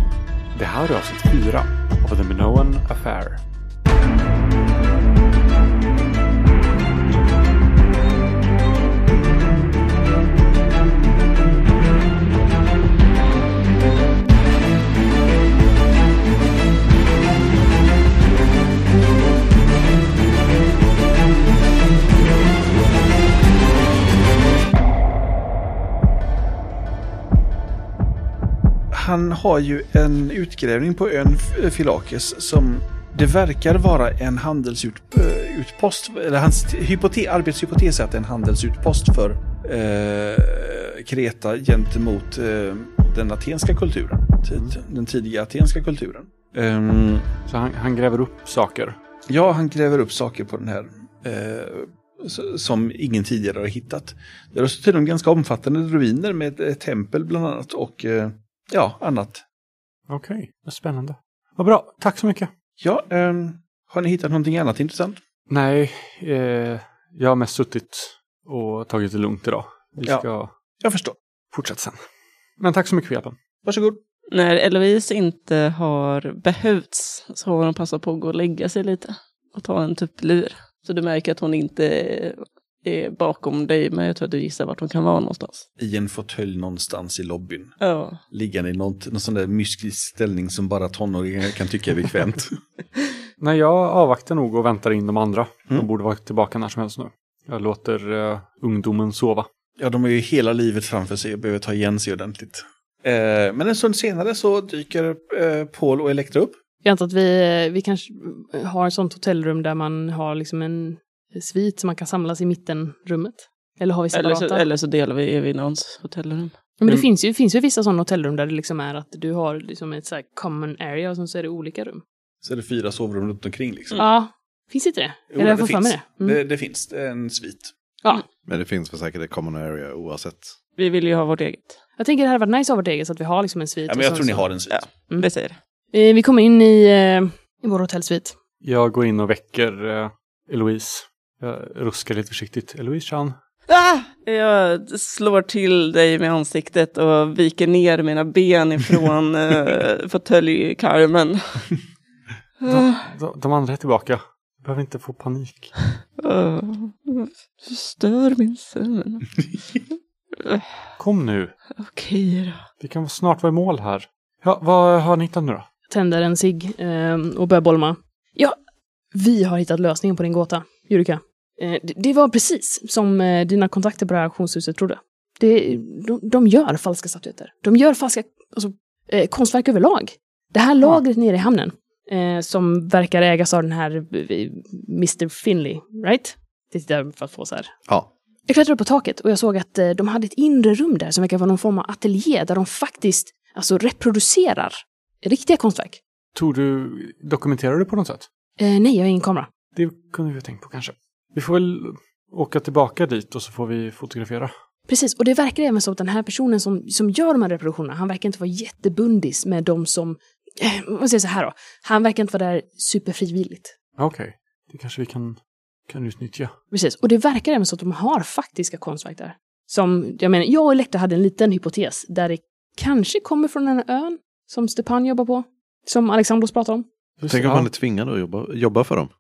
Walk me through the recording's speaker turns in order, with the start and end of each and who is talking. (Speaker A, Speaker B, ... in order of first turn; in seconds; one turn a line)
Speaker A: 0.5-3.4
Speaker B: 28.9-47.3
Speaker A: 47.5-49.0
Speaker B: 49.3-59.4
Speaker A: 60.1-62.5
Speaker B: 62.8-65.2
Speaker A: 65.5-70.5
Speaker B: 70.8-71.2
Speaker A: 71.5-72.0
Speaker A: 72.6-73.3
Speaker B: 73.7-74.0
Speaker C: 74.3-85.7
Speaker B: 85.8-87.7
Speaker C: 87.8-88.2
Speaker B: 88.3-92.6
Speaker A: 93.4-99.5
Speaker B: 99.8-106.6
Speaker D: 106.8-114.7
Speaker C: 114.1-116.5
Speaker D: 116.8-122.0
Speaker B: 122.4-124.0
Speaker D: 124.0-126.4
Speaker B: 125.3-127.7
Speaker E: 128.5-130.5
Speaker C: 130.8-131.8
Speaker D: 132.0-135.3
Speaker B: 133.9-134.9
Speaker C: 134.7-135.6
Speaker D: 135.9-138.4
Speaker A: 138.6-143.4
Speaker C: 143.7-151.7
Speaker C: 152.6-153.1
Speaker A: 152.7-155.7
Speaker C: 156.2-159.4
Speaker C: 160.4-160.7
Speaker A: 161.0-161.6
Speaker C: 161.8-162.7
Speaker A: 162.8-165.7
Speaker D: 165.9-168.6
Speaker D: 169.1-187.7
Speaker D: 188.5-196.0
Speaker A: 196.3-198.3
Speaker D: 198.6-199.5
Speaker A: 199.8-204.5
Speaker D: 204.9-213.7
Speaker A: 214.0-216.5
Speaker D: 216.7-226.9
Speaker A: 227.2-227.7
Speaker E: 227.3-229.1